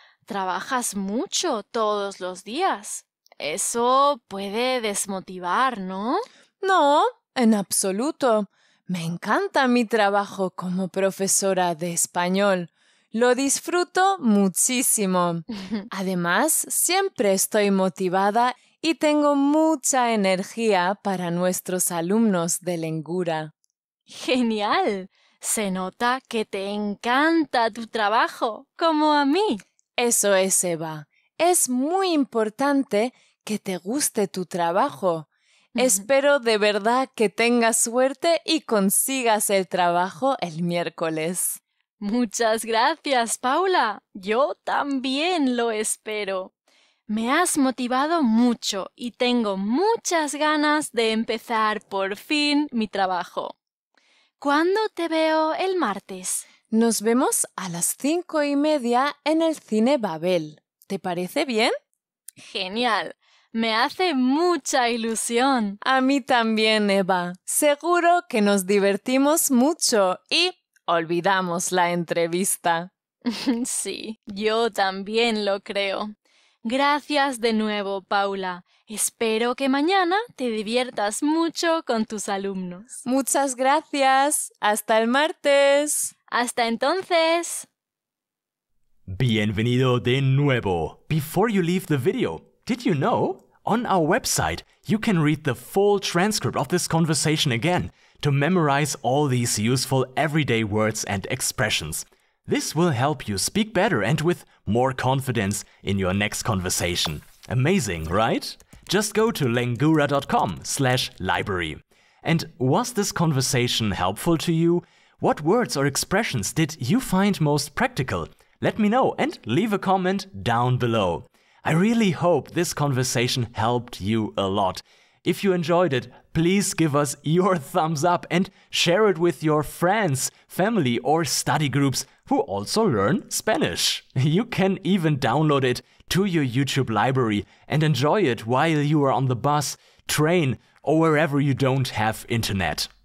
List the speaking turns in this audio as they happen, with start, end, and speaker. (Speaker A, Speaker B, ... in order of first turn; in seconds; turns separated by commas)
Speaker A: 0.3-6.2, Speaker B: 6.6-23.5, Speaker A: 24.1-29.6, Speaker B: 30.0-41.6, Speaker A: 35.8-36.0, Speaker A: 42.0-46.5, Speaker A: 47.1-53.5, Speaker A: 54.4-56.4, Speaker B: 56.7-61.7, Speaker A: 62.4-65.8, Speaker B: 65.8-72.9, Speaker A: 73.3-76.1, Speaker A: 76.6-82.9, Speaker B: 83.0-86.1, Speaker A: 86.3-87.7, Speaker C: 89.1-142.9